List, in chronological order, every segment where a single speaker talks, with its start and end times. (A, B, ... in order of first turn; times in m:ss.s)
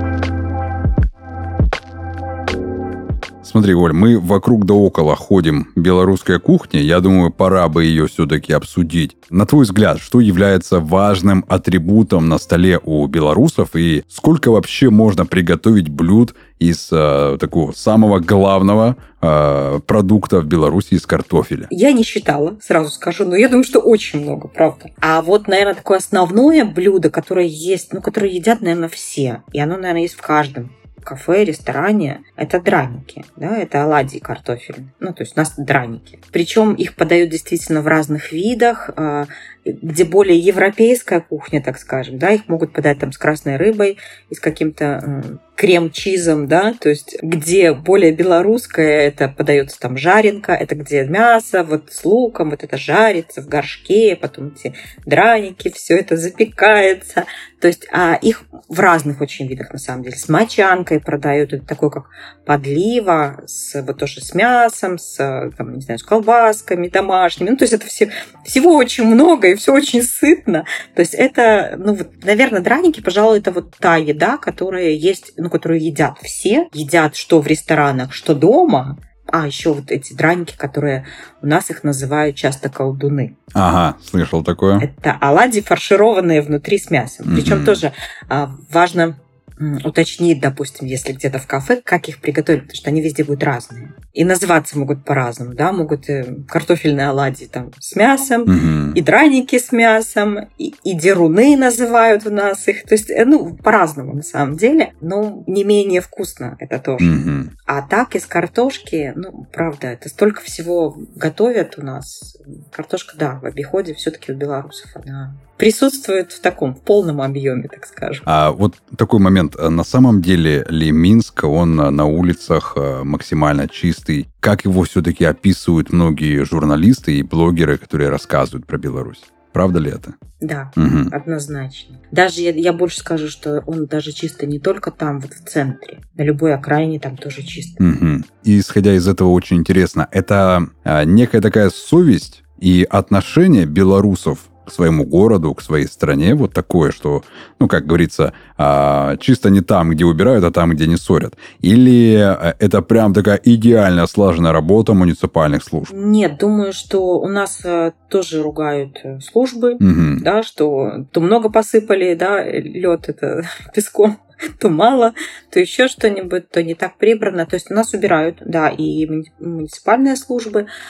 0:03.4-0:21.7 A
0:21.7-1:23.4 B
1:23.5-1:24.8 A
1:24.8-1:58.2 B
1:27.3-1:27.8 A
1:38.4-1:39.0 A
1:47.0-1:47.5 A
1:58.2-2:10.2 A
2:10.4-2:17.8 B
2:10.8-2:11.1 A
2:17.8-2:35.9 A
2:35.9-2:50.7 B
2:39.8-2:40.2 A